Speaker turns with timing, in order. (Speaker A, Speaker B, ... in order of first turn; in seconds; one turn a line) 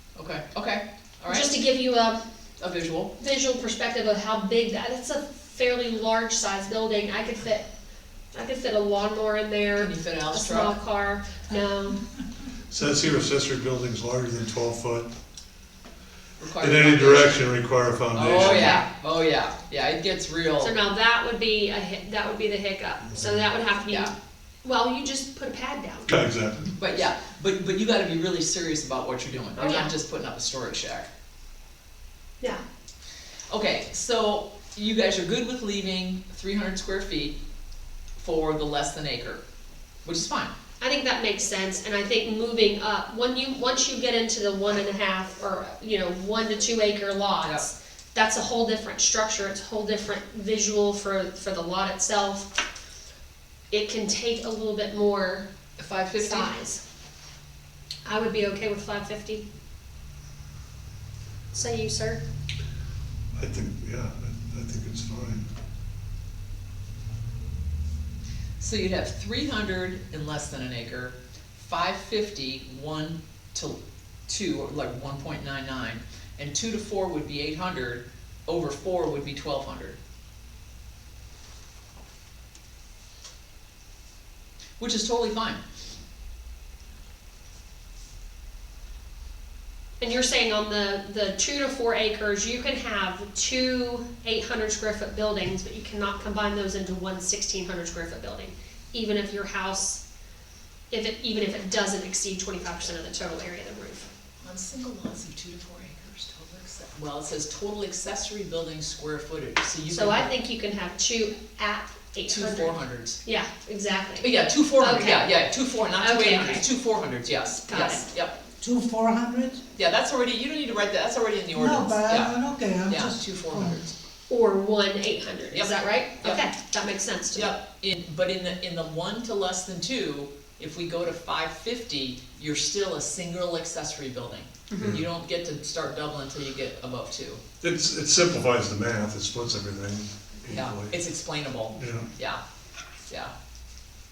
Speaker A: 0.2-1.6
Speaker B: 1.3-2.2
Speaker A: 2.6-3.1
Speaker B: 3.2-7.7
Speaker B: 8.3-12.0
Speaker A: 9.8-10.8
Speaker C: 12.7-15.1
Speaker A: 16.4-17.4
Speaker C: 16.6-18.8
Speaker A: 18.1-20.8
Speaker B: 18.3-18.9
Speaker B: 20.6-26.2
Speaker C: 23.1-23.4
Speaker C: 26.1-26.6
Speaker A: 26.6-31.1
Speaker B: 29.6-29.9
Speaker A: 33.5-37.4
Speaker A: 38.2-39.4
Speaker A: 40.0-40.5
Speaker B: 40.8-52.5
Speaker B: 53.7-55.5
Speaker A: 55.8-56.5
Speaker B: 56.2-56.8
Speaker B: 58.0-59.5
Speaker B: 61.5-62.2
Speaker C: 63.4-65.5
Speaker A: 68.6-80.0
Speaker A: 84.8-85.6
Speaker B: 90.0-100.0
Speaker B: 100.9-104.1
Speaker A: 104.4-110.3
Speaker B: 109.9-115.3
Speaker A: 112.3-113.2
Speaker A: 114.2-118.4
Speaker B: 116.0-116.7
Speaker B: 117.7-118.1
Speaker D: 118.6-119.6
Speaker A: 119.8-122.3
Speaker D: 121.5-123.8
Speaker A: 122.9-123.9
Speaker B: 124.3-127.5
Speaker A: 125.5-126.5
Speaker A: 127.3-137.4
Speaker B: 134.7-135.0
Speaker C: 137.6-141.0
Speaker A: 140.5-142.4
Speaker C: 141.8-142.1